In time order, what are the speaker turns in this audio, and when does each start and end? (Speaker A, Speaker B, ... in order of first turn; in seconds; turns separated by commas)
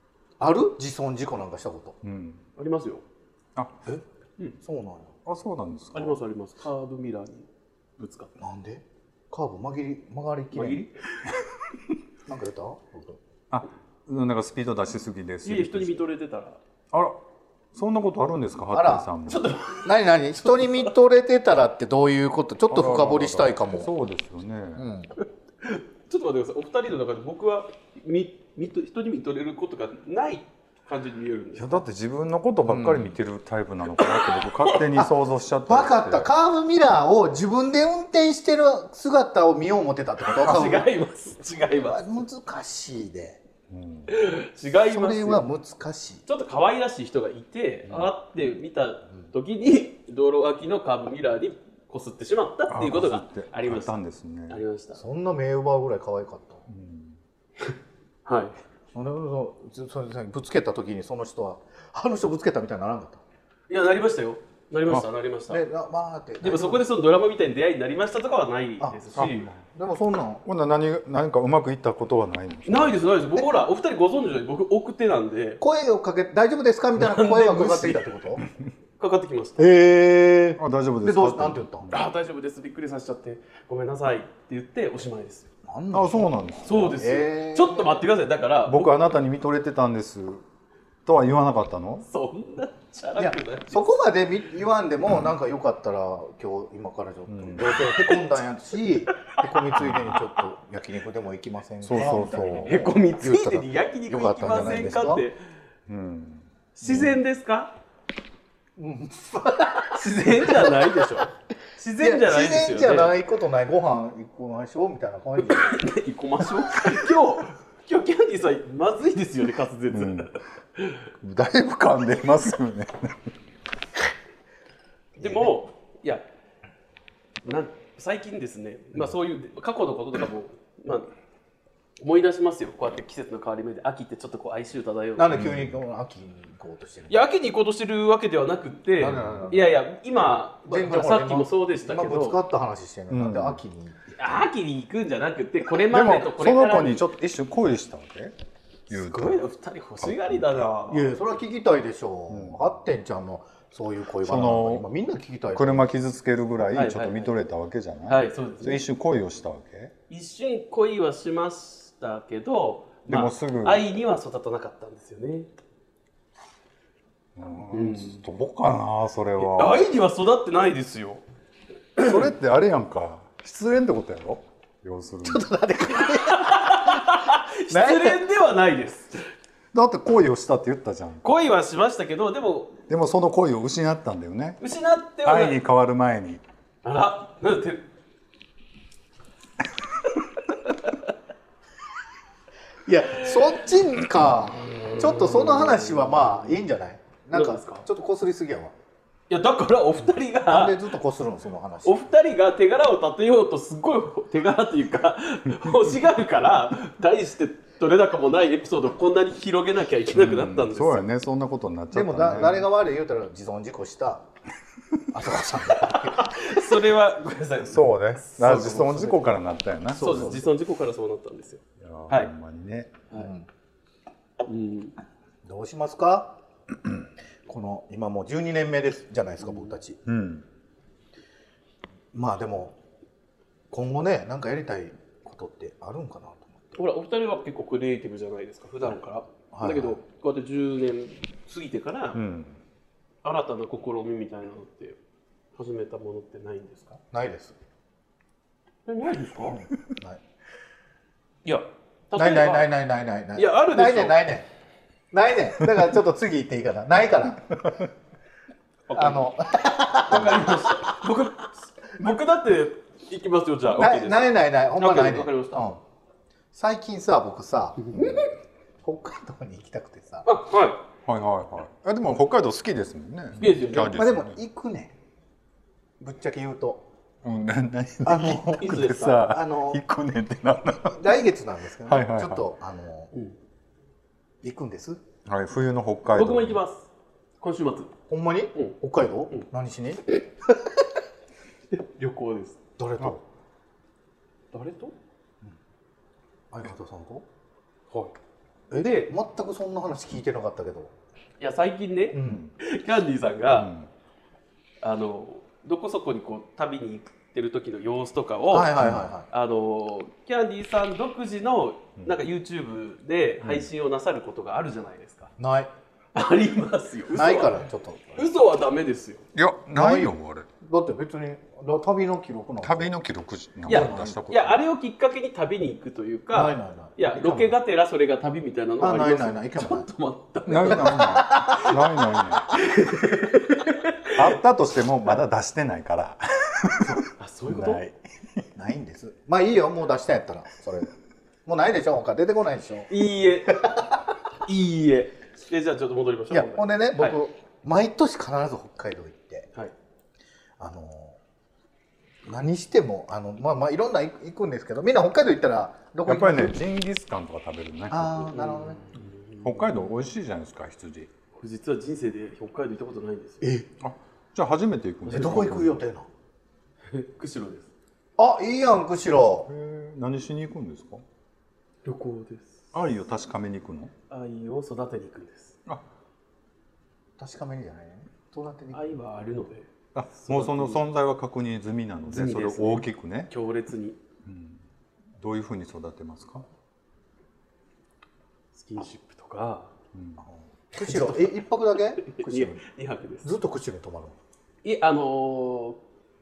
Speaker A: 0.4-2.0, Speaker B: 2.0-2.4, Speaker C: 2.6-3.0, Speaker B: 3.6-3.8, Speaker A: 4.6-5.1, Speaker B: 5.2-6.2, Speaker C: 5.9-8.3, Speaker A: 8.4-10.8, Speaker C: 10.5-10.9, Speaker A: 12.3-13.2, Speaker B: 13.5-16.0, Speaker C: 15.4-16.6, Speaker B: 16.9-17.2, Speaker B: 17.7-19.5, Speaker A: 18.7-19.1, Speaker C: 19.3-19.9, Speaker A: 19.8-23.9, Speaker C: 20.4-20.9, Speaker B: 22.7-24.8, Speaker A: 24.8-25.1, Speaker C: 25.6-31.9, Speaker B: 31.6-36.3, Speaker A: 32.6-33.1, Speaker C: 34.0-34.9, Speaker A: 35.7-40.9, Speaker C: 40.2-42.1, Speaker A: 41.8-43.4, Speaker B: 43.7-44.1, Speaker C: 44.1-45.4, Speaker A: 44.8-46.2, Speaker C: 46.3-54.0, Speaker B: 52.7-54.6, Speaker C: 54.5-55.0, Speaker A: 55.0-56.7, Speaker B: 56.7-57.2, Speaker C: 58.3-58.6, Speaker A: 58.9-63.2, Speaker C: 63.7-65.6, Speaker A: 65.5-66.8, Speaker C: 66.4-69.5, Speaker A: 68.8-70.4, Speaker B: 69.2-69.6, Speaker B: 70.4-73.2, Speaker C: 72.7-75.6, Speaker A: 75.6-78.4, Speaker C: 77.0-78.1, Speaker C: 79.0-79.7, Speaker A: 79.6-81.9, Speaker B: 80.6-82.0, Speaker C: 81.9-85.5, Speaker A: 85.7-88.0, Speaker B: 85.9-87.0, Speaker C: 86.7-89.0, Speaker B: 88.7-90.4, Speaker B: 91.1-92.1, Speaker C: 92.1-93.8, Speaker A: 93.2-105.3, Speaker B: 97.3-97.8, Speaker B: 99.8-100.3, Speaker B: 101.8-102.9, Speaker C: 102.7-105.4, Speaker B: 105.9-107.2, Speaker C: 106.8-107.8, Speaker A: 108.8-111.2, Speaker C: 109.9-113.2, Speaker A: 112.0-115.8, Speaker C: 115.4-121.0, Speaker B: 119.9-120.3, Speaker B: 121.2-123.3, Speaker C: 125.2-126.2, Speaker A: 125.2-125.5, Speaker C: 127.4-131.1, Speaker C: 132.0-135.4, Speaker A: 135.2-137.3, Speaker B: 135.3-135.8, Speaker C: 137.1-142.4, Speaker A: 139.0-139.6, Speaker A: 140.7-144.1, Speaker B: 143.1-143.6, Speaker C: 144.2-147.1, Speaker B: 145.8-148.3, Speaker B: 148.9-149.4, Speaker C: 148.9-151.2, Speaker B: 150.0-150.7, Speaker A: 150.9-155.9, Speaker B: 152.3-152.7, Speaker B: 154.2-154.9, Speaker B: 155.5-159.9, Speaker C: 156.7-157.3, Speaker C: 158.1-158.8, Speaker C: 160.1-165.5, Speaker B: 163.1-163.8, Speaker B: 167.4-169.9, Speaker C: 167.7-168.2, Speaker C: 169.4-171.2, Speaker B: 172.0-175.5, Speaker A: 175.2-177.2, Speaker C: 176.1-179.3, Speaker A: 177.7-178.2, Speaker B: 179.7-181.4, Speaker C: 181.2-182.8, Speaker B: 182.9-184.6, Speaker C: 184.6-185.6, Speaker B: 185.2-186.4, Speaker C: 186.8-187.9, Speaker C: 190.6-190.9, Speaker A: 192.8-198.7, Speaker C: 194.6-196.4, Speaker C: 197.3-197.9, Speaker C: 199.3-200.9, Speaker A: 200.5-202.0, Speaker C: 201.8-211.1, Speaker B: 210.1-212.7, Speaker A: 211.9-214.3, Speaker A: 215.1-216.5, Speaker C: 215.8-222.3, Speaker B: 217.6-220.4, Speaker A: 220.0-220.4, Speaker B: 221.8-223.0, Speaker A: 223.1-223.5, Speaker C: 224.4-225.0, Speaker A: 225.4-226.3, Speaker A: 227.5-230.0, Speaker C: 229.5-229.7, Speaker B: 230.1-230.4, Speaker A: 232.1-232.8, Speaker A: 233.7-236.8, Speaker C: 236.8-242.2, Speaker A: 239.5-240.0, Speaker B: 242.1-242.6, Speaker C: 243.2-245.0, Speaker C: 245.6-247.0, Speaker A: 247.1-247.6, Speaker C: 248.9-249.6, Speaker A: 249.5-250.2, Speaker C: 251.4-252.7, Speaker A: 252.2-254.5, Speaker C: 253.4-254.3, Speaker A: 255.1-257.8, Speaker C: 258.9-259.3, Speaker A: 258.9-260.9, Speaker C: 259.9-264.2, Speaker A: 263.8-265.8, Speaker C: 264.8-265.7, Speaker A: 266.5-268.3, Speaker C: 267.9-268.3, Speaker A: 268.8-270.3, Speaker C: 270.2-270.8, Speaker B: 271.1-274.4, Speaker C: 273.4-274.0, Speaker A: 273.9-274.9, Speaker A: 276.0-276.8, Speaker B: 277.2-281.0, Speaker A: 278.1-278.7, Speaker C: 278.2-279.3, Speaker A: 279.2-279.8, Speaker A: 280.8-283.1, Speaker B: 281.9-282.5, Speaker A: 284.4-285.0, Speaker B: 285.2-286.6, Speaker C: 286.1-286.9, Speaker C: 287.4-287.9, Speaker A: 288.1-290.1, Speaker C: 291.7-292.6, Speaker A: 292.8-293.2, Speaker C: 294.5-294.9, Speaker A: 296.5-297.2, Speaker A: 298.7-300.9, Speaker C: 298.7-299.1, Speaker C: 301.4-303.7, Speaker A: 302.1-302.4, Speaker B: 302.2-302.5, Speaker B: 303.5-303.9, Speaker C: 304.8-315.3, Speaker A: 308.5-309.3, Speaker B: 308.8-309.1, Speaker B: 313.4-313.7, Speaker A: 315.4-315.7, Speaker C: 316.1-317.6, Speaker A: 317.1-318.3, Speaker C: 318.2-319.3, Speaker B: 319.3-320.5, Speaker A: 319.8-322.9, Speaker B: 322.6-324.6, Speaker A: 323.7-324.2, Speaker C: 323.7-331.8, Speaker A: 326.3-327.5, Speaker A: 328.8-329.9, Speaker B: 330.5-332.6, Speaker A: 330.7-331.8, Speaker C: 332.5-334.4, Speaker B: 334.1-338.4, Speaker C: 337.1-337.8, Speaker A: 338.6-340.9, Speaker A: 341.5-342.9, Speaker C: 342.9-343.6, Speaker A: 343.5-344.0, Speaker C: 344.3-347.2, Speaker A: 346.3-349.5, Speaker A: 350.6-351.2, Speaker A: 352.3-356.6, Speaker B: 356.1-358.3, Speaker A: 357.9-358.8, Speaker C: 358.3-359.9, Speaker B: 359.4-361.1, Speaker C: 361.4-363.4, Speaker A: 363.4-363.7, Speaker B: 363.8-365.8, Speaker C: 365.1-365.7, Speaker A: 365.1-366.1, Speaker C: 366.9-367.7, Speaker A: 368.2-369.5, Speaker B: 369.5-371.0, Speaker C: 371.9-372.6, Speaker B: 372.7-373.9, Speaker C: 374.1-375.6, Speaker A: 377.2-378.8, Speaker C: 378.7-380.8, Speaker B: 379.9-383.3, Speaker C: 382.1-384.0, Speaker B: 384.2-384.6, Speaker B: 385.2-386.5, Speaker C: 388.5-389.7, Speaker B: 389.9-390.2, Speaker A: 390.2-392.6, Speaker C: 390.8-393.3, Speaker A: 393.2-394.2, Speaker C: 394.6-395.8